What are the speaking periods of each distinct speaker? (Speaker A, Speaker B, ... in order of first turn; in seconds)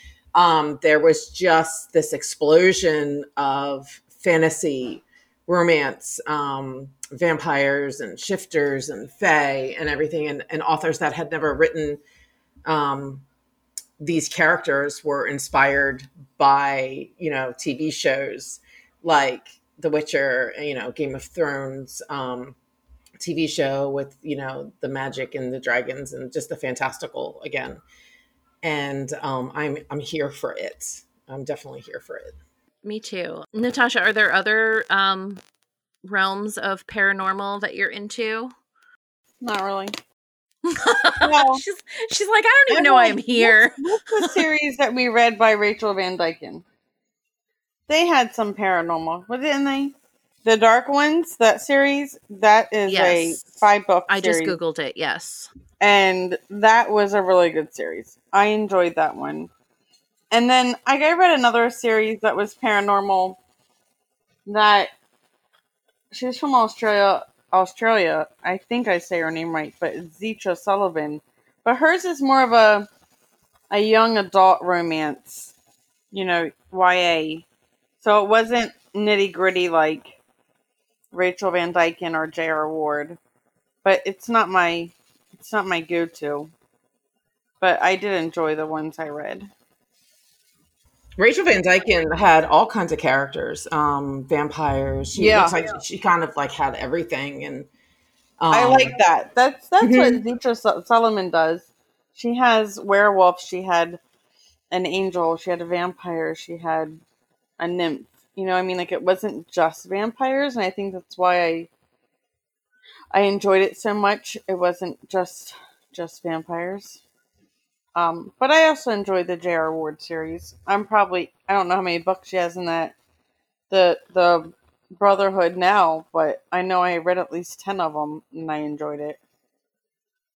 Speaker A: 0.3-12.0, 12.7-13.2, 14.0-22.6, 23.2-27.8, 28.6-32.4, 91.2-97.7, 98.4-98.9, 99.8-100.2
Speaker B: 32.8-35.4, 36.0-38.5, 40.6-44.4, 52.9-53.4, 54.1-55.5
Speaker C: 39.4-39.9, 41.2-41.6, 42.7-46.6, 47.9-54.6, 55.8-59.5, 60.3-63.4, 64.5-64.9, 66.1-72.9, 73.7-75.5, 76.1-77.4, 78.0-80.2, 81.1-83.2, 83.8-86.5, 87.6-89.5, 95.2-95.6, 98.5-104.0, 104.7-107.0, 107.6-111.7, 113.1-117.0, 117.9-122.9, 123.7-129.2